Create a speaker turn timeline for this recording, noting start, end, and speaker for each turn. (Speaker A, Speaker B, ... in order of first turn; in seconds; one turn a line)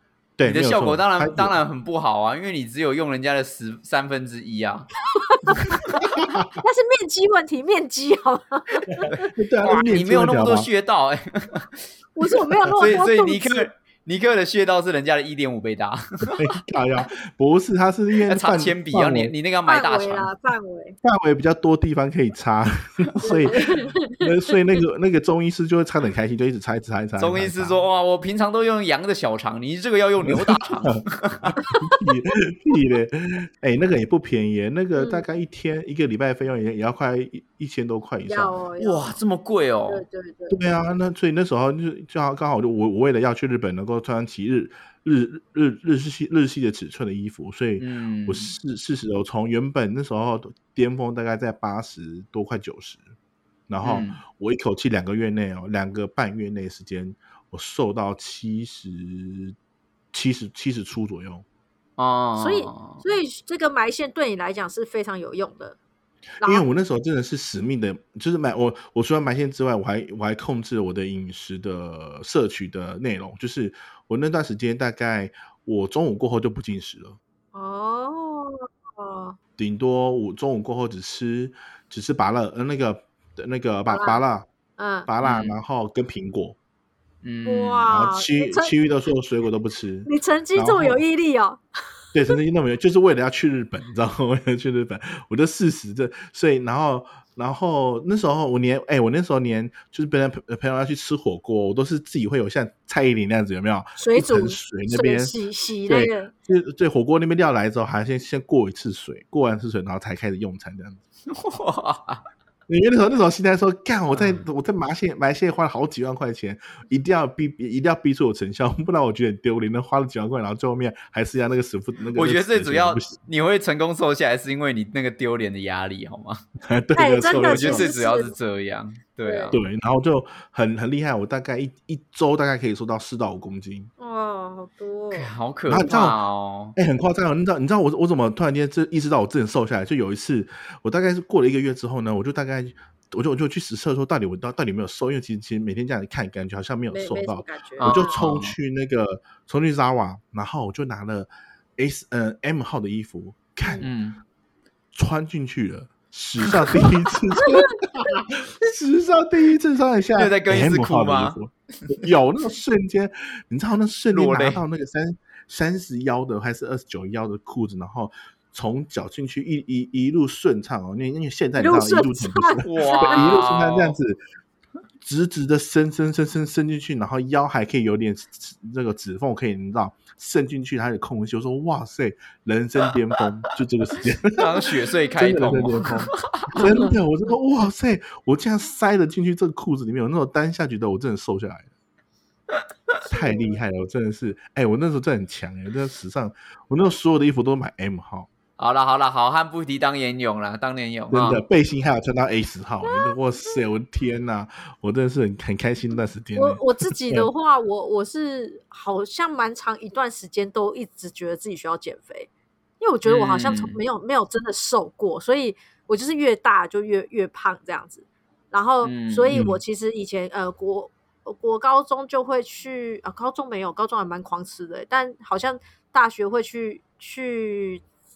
Speaker A: 0.4-1.6
Speaker B: 0.4-4.9
Speaker C: 5.2-6.1
Speaker A: 6.1-6.5
Speaker C: 6.6-9.2
Speaker A: 9.0-10.7
Speaker B: 9.1-11.7
Speaker C: 12.2-13.7
Speaker B: 12.8-16.4
Speaker A: 16.4-19.3
Speaker B: 18.3-20.3
Speaker C: 19.7-21.0
Speaker A: 21.0-27.8
Speaker C: 23.2-24.3
Speaker B: 27.2-31.6
Speaker A: 30.2-38.6
Speaker C: 31.6-32.0
Speaker C: 35.0-35.2
Speaker C: 38.2-39.2
Speaker B: 38.8-40.0
Speaker C: 39.9-40.6
Speaker A: 40.5-53.0
Speaker B: 47.8-48.5
Speaker A: 53.7-59.6
Speaker B: 53.8-54.2
Speaker A: 60.1-61.5
Speaker B: 62.0-63.0
Speaker C: 62.4-65.8
Speaker C: 66.4-66.7
Speaker A: 66.4-77.2
Speaker C: 77.5-79.4
Speaker A: 79.6-84.5
Speaker C: 83.9-84.2
Speaker C: 84.8-85.1
Speaker A: 85.1-86.6
Speaker B: 85.2-85.6
Speaker B: 87.2-87.9
Speaker C: 87.5-88.7
Speaker A: 87.9-91.0
Speaker C: 90.1-91.6
Speaker A: 92.1-105.3
Speaker C: 104.0-106.3
Speaker A: 105.9-111.0
Speaker B: 111.3-112.2
Speaker A: 112.7-123.2
Speaker B: 114.1-114.4
Speaker B: 122.1-126.4
Speaker A: 126.7-127.9
Speaker C: 127.0-128.3
Speaker B: 127.3-129.6
Speaker C: 129.2-129.6
Speaker A: 129.5-133.9
Speaker C: 134.0-135.3
Speaker B: 135.1-136.8
Speaker A: 135.7-136.2
Speaker A: 136.8-153.9
Speaker C: 146.9-148.2
Speaker B: 147.8-148.6
Speaker C: 153.6-153.9
Speaker B: 153.8-154.2
Speaker A: 154.9-174.2
Speaker C: 157.4-157.7
Speaker B: 160.2-161.9
Speaker B: 164.1-164.6
Speaker C: 171.6-173.3
Speaker B: 172.6-174.0
Speaker A: 175.0-191.7
Speaker B: 184.3-186.6
Speaker C: 186.6-186.9
Speaker C: 193.1-193.6
Speaker A: 193.1-198.3
Speaker B: 198.6-201.4
Speaker A: 201.1-207.3
Speaker C: 202.8-203.6
Speaker C: 206.4-227.8
Speaker B: 213.1-213.8
Speaker B: 218.8-219.3
Speaker A: 219.3-219.6